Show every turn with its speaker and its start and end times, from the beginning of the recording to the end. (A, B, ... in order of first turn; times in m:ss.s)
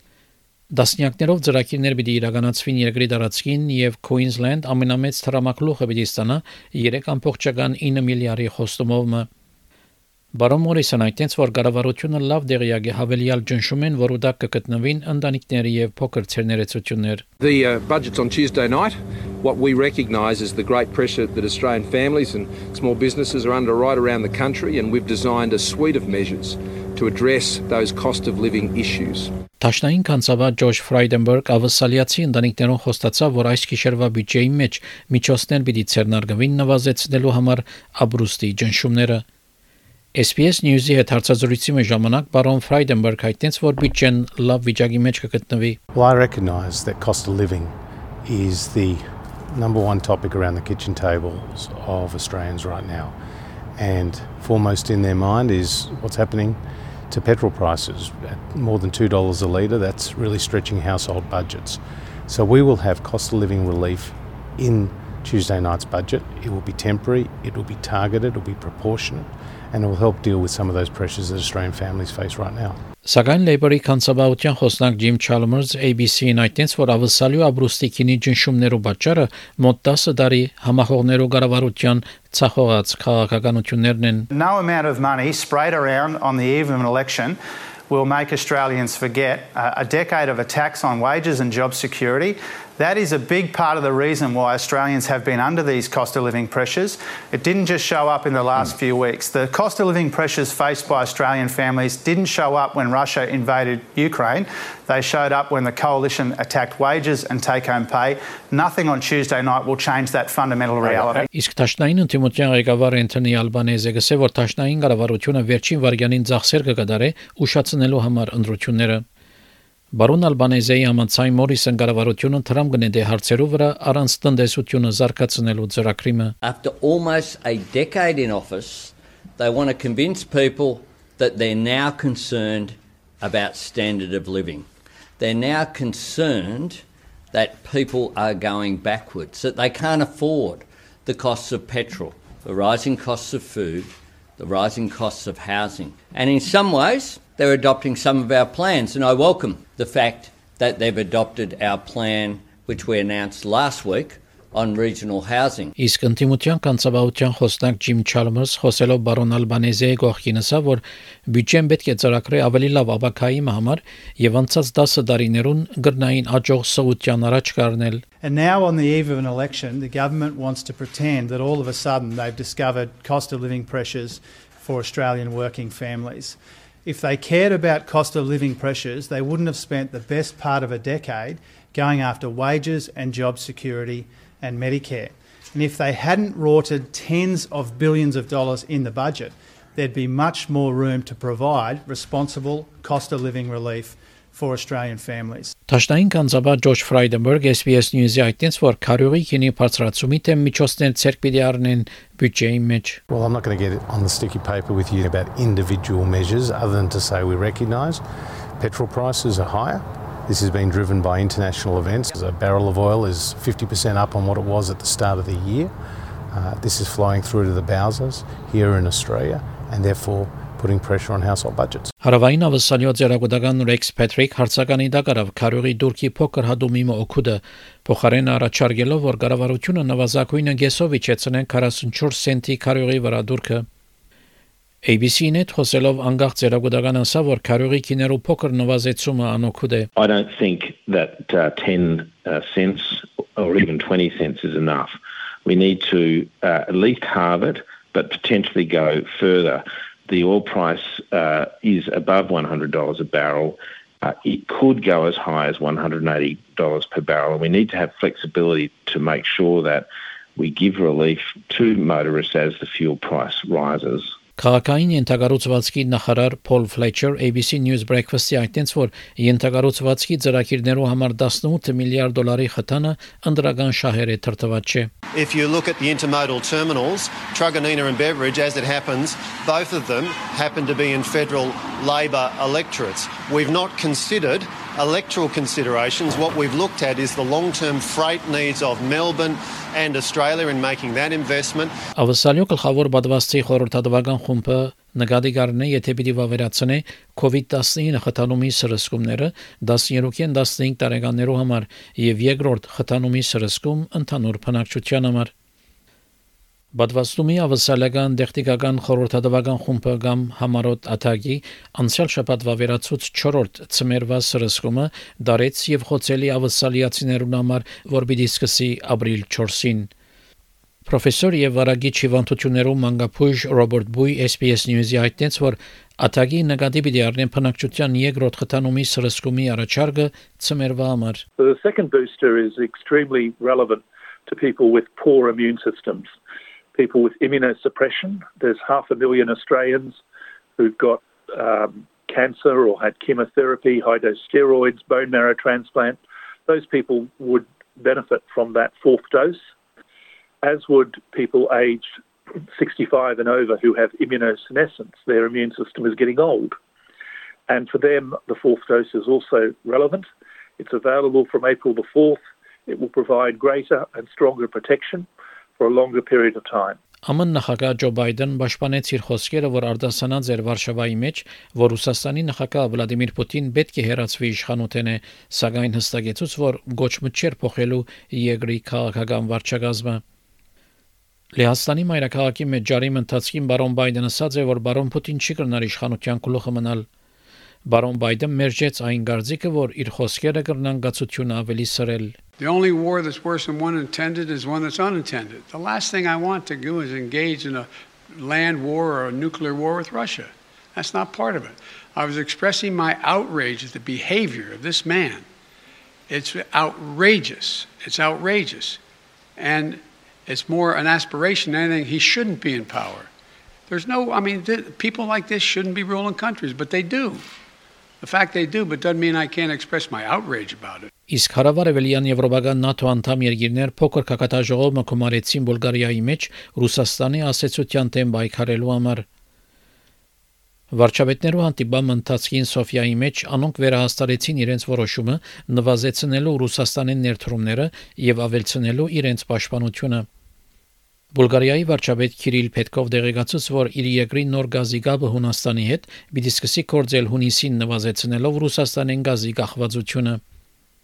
0:00.7-0:09.3 A
0:10.3-0:17.2 A
0:17.4-0:29.3 B
0:29.6-0:39.2 A
0:40.1-0:45.8 A
0:45.9-0:47.8 C
0:48.3-0:53.2 C
0:53.8-1:12.8 C
1:13.0-1:24.3 A
1:24.3-1:27.4 D
1:27.9-1:51.3 D
1:51.3-1:59.0 A
1:59.9-2:06.3 A
2:06.4-2:14.7 E
2:15.2-2:16.8 E
2:17.3-2:35.7 E
2:35.8-2:48.0 A
2:48.2-3:15.5 D
3:15.7-3:23.0 A
3:23.1-3:28.0 C
3:28.6-3:35.7 C
3:36.3-3:41.9 C
3:42.0-3:53.7 A
3:54.8-3:59.9 A
4:00.0-4:24.1 F
4:24.4-4:34.9 A
4:35.1-4:51.7 G
4:52.0-5:05.3 A
5:06.7-5:19.9 A
5:20.9-5:31.2 A
5:31.4-5:36.1 H
5:36.8-5:40.0 H
5:40.6-5:49.4 H
5:50.4-5:51.9 H
5:52.5-5:56.6 H
5:57.5-6:06.8 H
6:07.1-6:20.0 A
6:21.4-6:26.9 A
6:27.6-6:32.2 A
6:32.4-6:45.3 I
6:46.1-6:48.8 I
6:49.4-6:53.1 I
6:53.7-6:57.2 I
6:58.0-7:00.9 I
7:01.1-7:09.1 A
7:10.7-7:20.1 A
7:21.1-7:30.2 A